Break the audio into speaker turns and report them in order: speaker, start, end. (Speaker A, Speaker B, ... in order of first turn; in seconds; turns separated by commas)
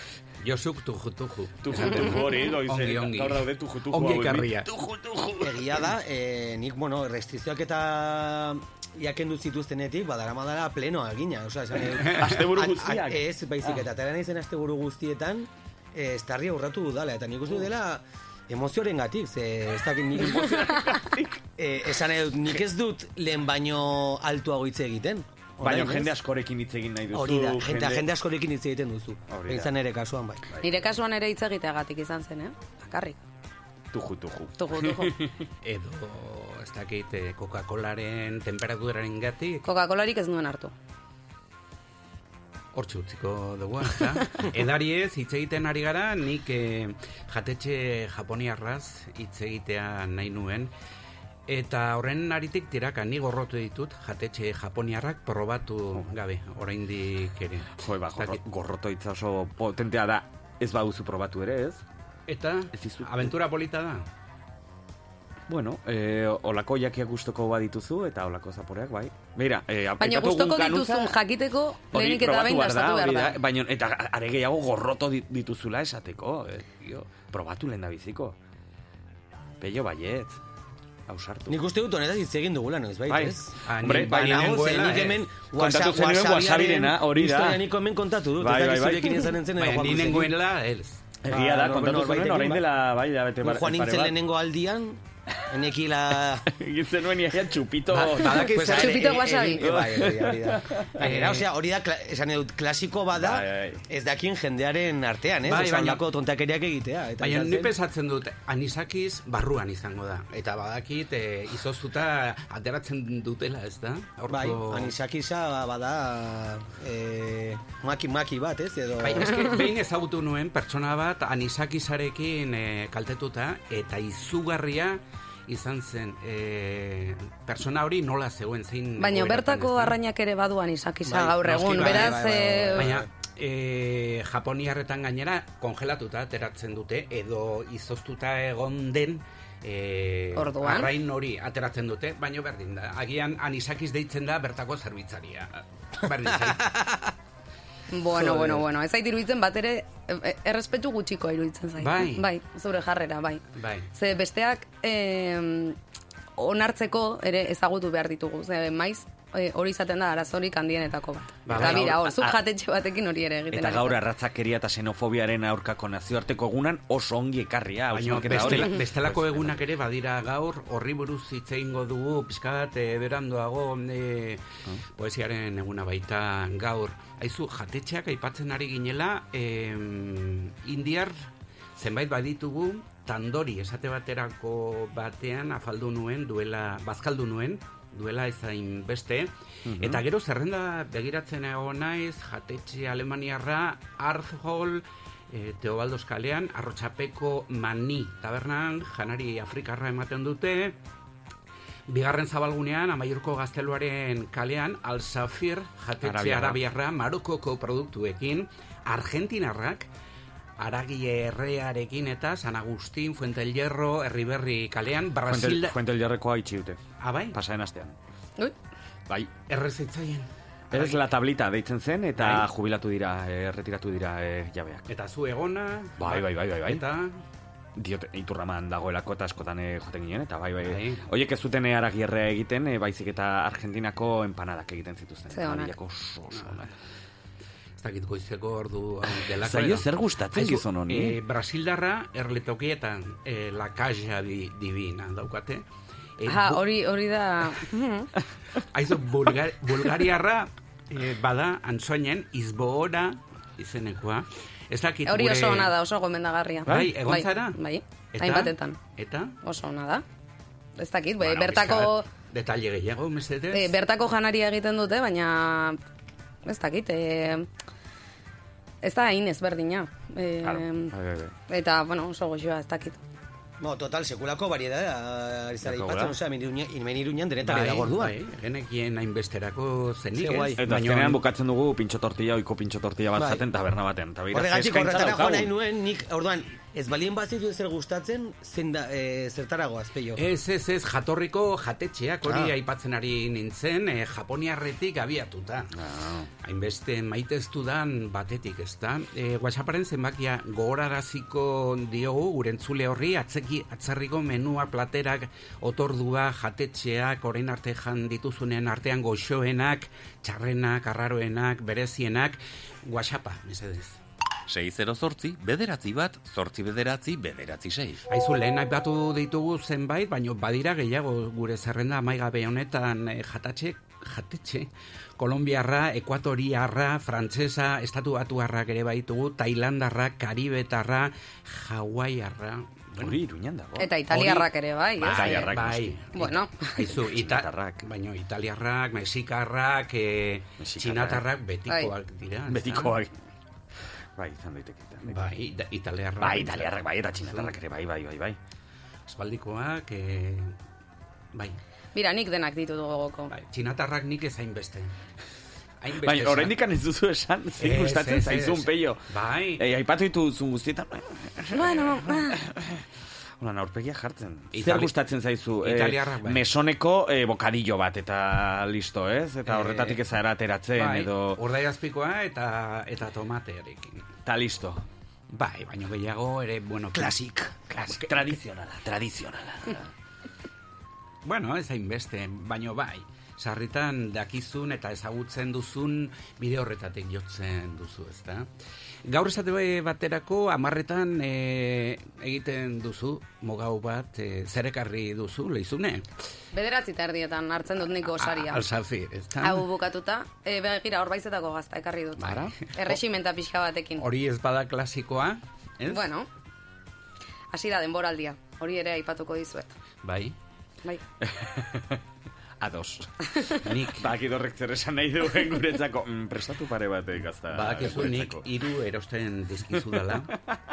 Speaker A: 0.4-4.7, Speaker B: 1.6-5.0, Speaker C: 5.4-20.7, Speaker A: 12.0-12.4, Speaker B: 12.2-13.8, Speaker B: 20.2-21.3, Speaker C: 21.6-26.1, Speaker B: 25.6-28.1, Speaker C: 27.1-30.4, Speaker B: 29.3-29.7, Speaker D: 30.6-33.2, Speaker B: 33.9-35.3, Speaker D: 34.6-35.1, Speaker A: 35.6-39.6, Speaker D: 39.6-40.7, Speaker A: 42.8-50.7, Speaker A: 51.5-58.4, Speaker B: 57.8-61.8, Speaker A: 62.3-64.0, Speaker B: 62.7-63.3, Speaker B: 65.5-71.2, Speaker D: 70.0-73.4, Speaker B: 71.9-78.4, Speaker B: 79.6-80.4, Speaker B: 81.1-81.6, Speaker C: 81.5-83.4, Speaker B: 83.1-84.7, Speaker A: 83.7-85.2, Speaker C: 83.9-90.3, Speaker B: 85.5-87.6, Speaker B: 88.4-89.3, Speaker A: 89.6-91.0, Speaker B: 91.2-94.2, Speaker C: 91.3-92.7, Speaker C: 93.4-96.5, Speaker B: 96.5-100.8, Speaker C: 97.9-107.7, Speaker A: 98.0-99.0, Speaker D: 98.7-99.6, Speaker A: 101.0-101.5, Speaker B: 103.2-103.8, Speaker A: 105.5-106.0, Speaker A: 107.2-114.9, Speaker C: 114.3-119.5, Speaker A: 119.0-130.0, Speaker D: 129.0-132.9, Speaker C: 131.1-133.0, Speaker A: 131.4-146.7, Speaker D: 140.4-140.9, Speaker C: 146.5-147.0, Speaker D: 147.9-155.8, Speaker C: 148.2-148.6, Speaker A: 151.8-152.2, Speaker A: 153.6-153.9, Speaker D: 156.4-164.0, Speaker A: 161.5-161.9, Speaker B: 161.5-162.4, Speaker B: 163.5-169.6, Speaker A: 167.9-200.8, Speaker A: 201.9-209.9, Speaker B: 206.0-206.6, Speaker A: 210.6-215.7, Speaker B: 215.3-216.8, Speaker A: 217.0-217.4, Speaker B: 217.3-217.9, Speaker A: 219.5-221.0, Speaker B: 220.7-224.9, Speaker A: 222.2-222.5, Speaker A: 224.9-227.2, Speaker B: 226.0-226.8, Speaker B: 227.8-236.7, Speaker A: 230.6-231.0, Speaker D: 235.3-235.7, Speaker A: 236.3-236.7, Speaker A: 237.8-245.7, Speaker B: 239.4-241.2, Speaker A: 246.2-246.6, Speaker D: 246.3-248.1, Speaker A: 248.7-255.7, Speaker D: 255.1-258.8, Speaker A: 256.7-257.6, Speaker A: 258.1-259.4, Speaker D: 259.4-260.0, Speaker D: 260.8-262.1, Speaker A: 261.2-263.7, Speaker D: 263.5-265.8, Speaker D: 266.5-267.5, Speaker D: 268.8-270.9, Speaker B: 270.4-271.3, Speaker D: 271.5-273.0, Speaker C: 273.6-278.1, Speaker B: 275.6-276.1, Speaker A: 277.4-281.2, Speaker B: 280.2-285.5, Speaker C: 283.2-283.4, Speaker C: 284.3-290.2, Speaker A: 290.2-295.7, Speaker B: 295.8-296.3, Speaker A: 296.4-314.0, Speaker E: 314.5-318.0, Speaker A: 318.1-333.2, Speaker B: 333.0-334.5, Speaker D: 333.8-335.5, Speaker B: 335.0-335.9, Speaker A: 335.0-343.0, Speaker D: 336.1-336.9, Speaker B: 337.1-337.9, Speaker B: 340.6-341.2, Speaker B: 342.5-343.1, Speaker B: 344.2-345.3, Speaker A: 345.1-347.5, Speaker B: 346.2-348.4, Speaker A: 349.1-350.6, Speaker A: 351.3-351.6, Speaker D: 351.9-353.3, Speaker A: 353.3-355.0, Speaker A: 355.8-356.5, Speaker B: 356.0-359.1, Speaker A: 357.6-359.6, Speaker B: 359.6-362.9, Speaker D: 361.5-362.4, Speaker B: 363.4-371.4, Speaker A: 364.5-364.9, Speaker A: 365.6-366.4, Speaker A: 369.5-370.0, Speaker A: 370.8-374.0, Speaker B: 374.3-374.9, Speaker A: 375.3-377.2, Speaker A: 377.7-378.1, Speaker B: 378.0-379.9, Speaker A: 381.2-388.5, Speaker A: 389.1-396.1, Speaker D: 396.5-398.6, Speaker A: 398.1-399.6, Speaker D: 399.4-404.0, Speaker A: 402.2-403.0, Speaker A: 404.0-406.0, Speaker D: 405.9-406.3, Speaker D: 407.5-409.7, Speaker A: 410.0-410.4, Speaker B: 411.2-412.0, Speaker B: 412.6-418.5, Speaker A: 413.6-414.1, Speaker A: 417.5-420.3, Speaker B: 419.7-420.5